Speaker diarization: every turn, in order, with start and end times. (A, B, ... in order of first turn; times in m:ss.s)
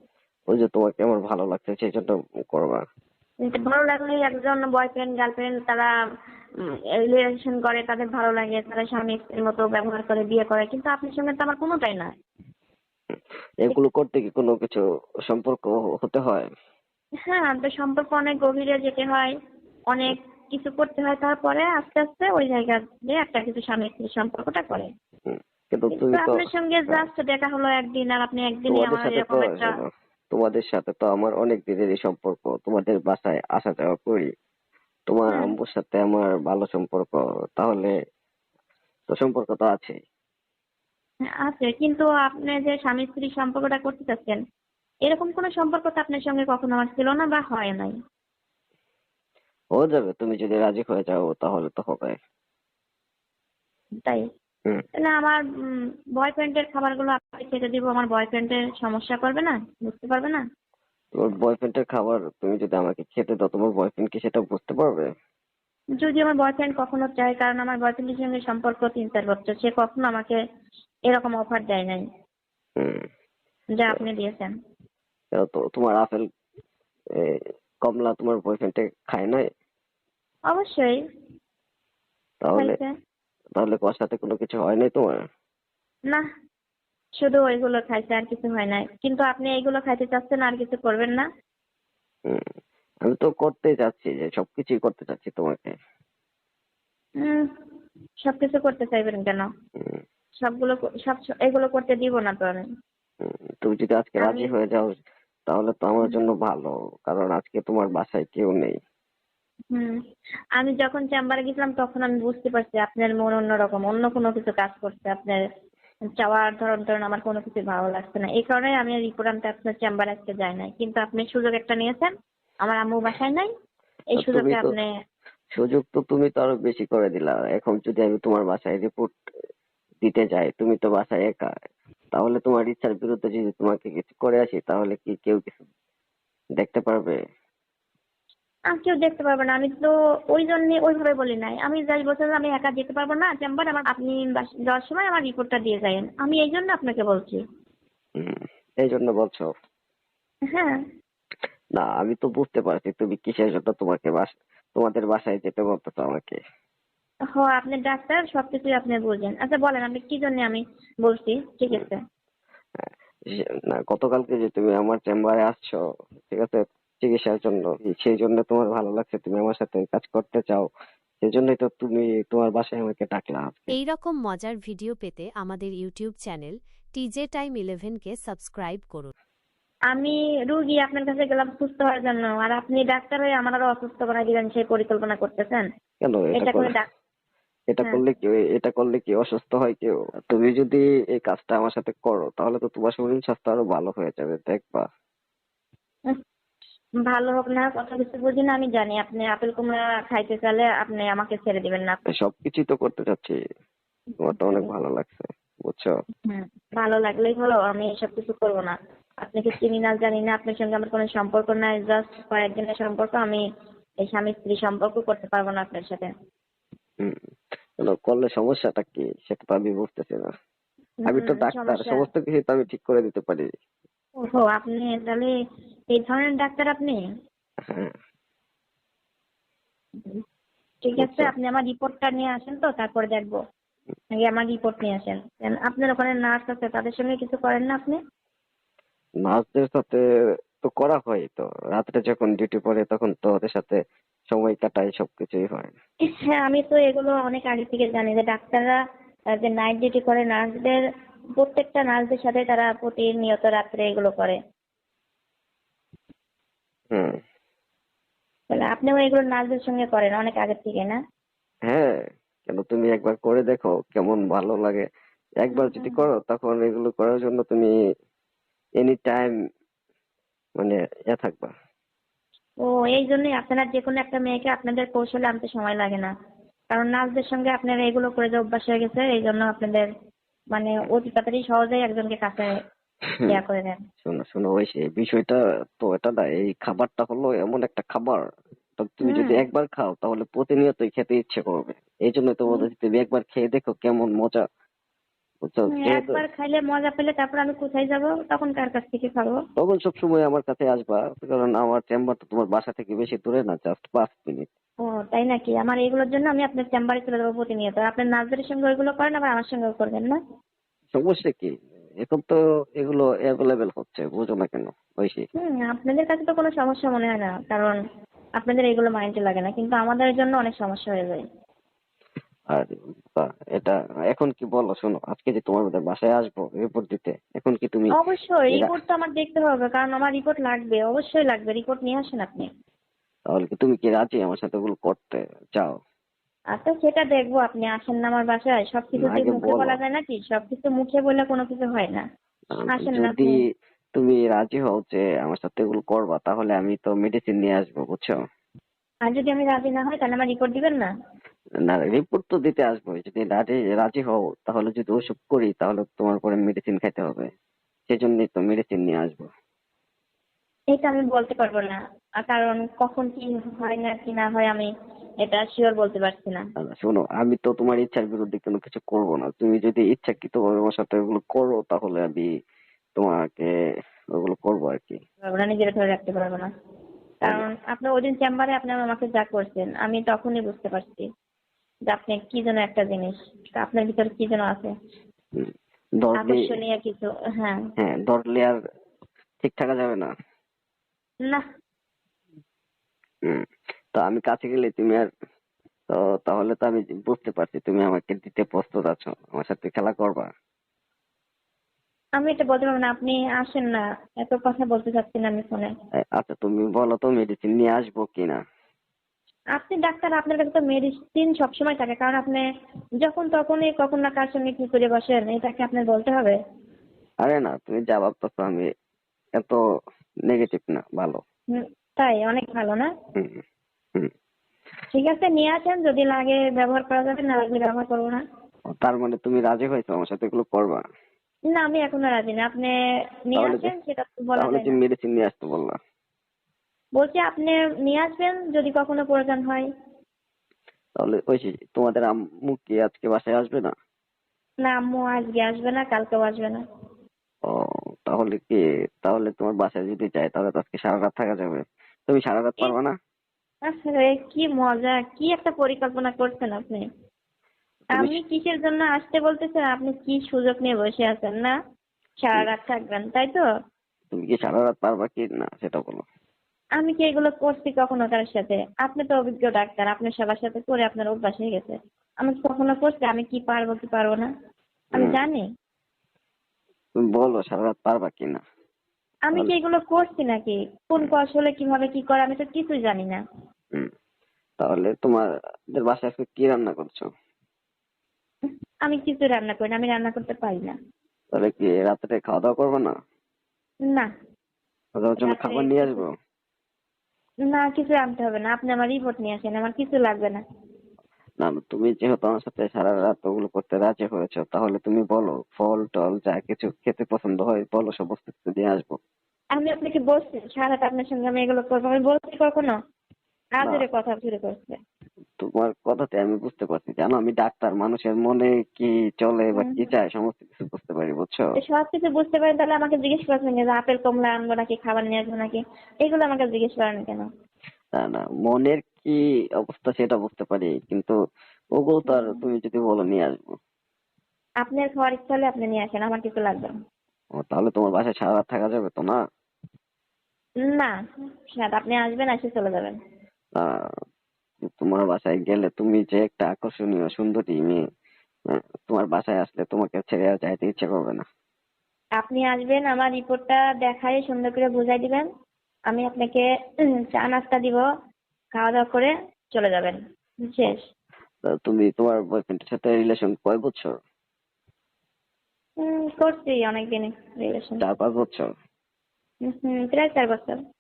0:00.5-0:02.8 A
0:03.4-0:05.9 B
0:06.7-0:12.1 B
0:13.6-0:16.5 A
0:17.3-0:19.3 B
0:19.9-0:24.9 B
0:25.3-0:27.0 A
0:25.9-0:29.7 B
0:28.7-0:34.3 A
0:35.1-0:37.9 A
0:39.1-0:40.0 A
0:41.4-0:44.4 B
0:45.1-0:47.9 B
0:49.8-0:52.2 A
0:55.0-1:00.4 B
1:01.1-1:05.1 A
1:06.0-1:10.4 B
1:11.1-1:12.0 B
1:12.8-1:13.0 A
1:13.8-1:14.5 B
1:15.3-1:16.2 A
1:17.2-1:19.4 A
1:20.5-1:21.0 B
1:22.4-1:22.8 A
1:22.6-1:22.9 B
1:23.6-1:25.2 A
1:27.2-1:31.2 B
1:33.0-1:35.7 A
1:37.2-1:37.5 B
1:38.2-1:39.5 B
1:40.4-1:42.6 B
1:43.2-1:48.7 A
1:44.2-1:44.5 B
1:50.6-1:55.4 B
1:56.2-2:03.5 B
2:04.1-2:04.9 B
2:04.2-2:04.7 A
2:05.6-2:09.1 A
2:10.0-2:11.5 A
2:12.1-2:15.5 A
2:16.6-2:17.2 A
2:18.7-2:27.4 B
2:28.2-2:29.5 A
2:30.5-2:30.8 B
2:31.8-2:36.4 A
2:37.3-2:42.0 B
2:42.8-2:50.7 A
2:51.2-2:53.7 A
2:53.7-2:59.1 C
2:59.9-3:05.6 B
3:06.0-3:06.7 A
3:06.3-3:06.8 B
3:07.7-3:14.8 A
3:17.1-3:22.0 B
3:22.1-3:23.4 A
3:24.2-3:25.9 A
3:24.3-3:24.7 B
3:26.3-3:33.4 B
3:34.0-3:36.1 B
3:37.8-3:40.3 A
3:41.0-3:42.0 B
3:41.0-3:43.5 A
3:44.2-3:45.3 B
3:45.9-3:47.0 B
3:47.7-3:47.9 A
3:50.8-3:53.4 B
3:51.0-3:51.3 A
3:54.1-3:58.0 B
3:59.2-4:00.0 A
4:00.6-4:03.8 A
4:04.3-4:05.7 A
4:06.3-4:08.8 B
4:09.4-4:10.8 B
4:11.4-4:14.4 B
4:18.5-4:21.0 B
4:21.7-4:24.8 A
4:25.4-4:27.7 A
4:25.5-4:26.0 B
4:28.8-4:29.3 A
4:30.6-4:31.5 A
4:32.6-4:36.1 B
4:36.7-4:39.9 B
4:40.5-4:42.6 B
4:43.3-4:43.8 B
4:44.0-4:48.2 A
4:48.8-4:54.4 A
4:49.1-4:49.4 B
4:55.4-4:56.2 A
4:55.7-4:59.4 B
4:59.6-5:04.5 A
5:04.8-5:10.2 B
5:10.9-5:11.5 A
5:12.0-5:15.3 A
5:15.4-5:17.8 B
5:18.4-5:21.2 B
5:22.5-5:28.0 A
5:28.0-5:32.5 B
5:33.3-5:35.7 A
5:36.5-5:42.0 B
5:39.0-5:39.8 A
5:42.5-5:43.4 A
5:42.7-5:43.3 B
5:44.0-5:48.1 A
5:49.1-5:50.9 B
5:51.6-5:57.3 A
5:57.9-5:59.3 A
6:00.7-6:04.7 B
6:05.2-6:06.4 B
6:06.6-6:12.3 A
6:13.0-6:13.5 A
6:14.2-6:15.0 A
6:15.2-6:16.5 B
6:17.2-6:21.1 B
6:21.9-6:24.7 B
6:25.4-6:26.6 A
6:26.2-6:27.6 B
6:27.8-6:28.6 A
6:29.4-6:30.1 A
6:33.9-6:35.1 A
6:35.9-6:40.3 A
6:42.2-6:45.7 B
6:46.2-6:48.4 A
6:49.6-6:52.4 B
6:53.0-6:56.4 B
6:57.2-6:58.7 A
7:00.3-7:01.2 A
7:01.5-7:02.9 B
7:03.2-7:03.4 A
7:04.9-7:08.2 B
7:08.7-7:10.8 A
7:11.5-7:12.7 B
7:13.3-7:14.8 B
7:13.4-7:13.7 A
7:14.4-7:15.7 A
7:17.0-7:19.7 B
7:21.0-7:23.7 A
7:24.6-7:26.6 B
7:27.4-7:32.9 A
7:33.7-7:36.8 B
7:37.9-7:38.2 A
7:38.0-7:41.5 B
7:42.2-7:43.4 B
7:44.1-7:46.0 A
7:46.8-7:54.3 B
7:55.0-7:55.4 B
7:57.0-7:58.4 A
7:59.3-8:03.2 B
8:04.6-8:07.1 A
8:08.8-8:10.8 B
8:11.4-8:12.9 A
8:15.0-8:16.1 A
8:15.2-8:16.0 B
8:17.5-8:20.4 B
8:21.4-8:29.0 A
8:29.5-8:32.7 B
8:33.6-8:34.8 B
8:35.4-8:41.4 A
8:39.6-8:39.8 B
8:41.6-8:47.2 B
8:48.0-8:51.1 A
8:51.8-8:53.5 A
8:52.1-8:52.4 B
8:54.6-8:56.7 B
8:57.4-8:59.2 A
9:00.6-9:00.9 B
9:01.5-9:03.0 B
9:04.6-9:07.8 A
9:08.5-9:11.2 A
9:12.2-9:15.2 B
9:15.9-9:16.4 B
9:17.1-9:17.8 B
9:18.6-9:20.8 B
9:21.4-9:24.0 A
9:25.8-9:27.8 B
9:27.8-9:28.5 A
9:29.5-9:30.6 B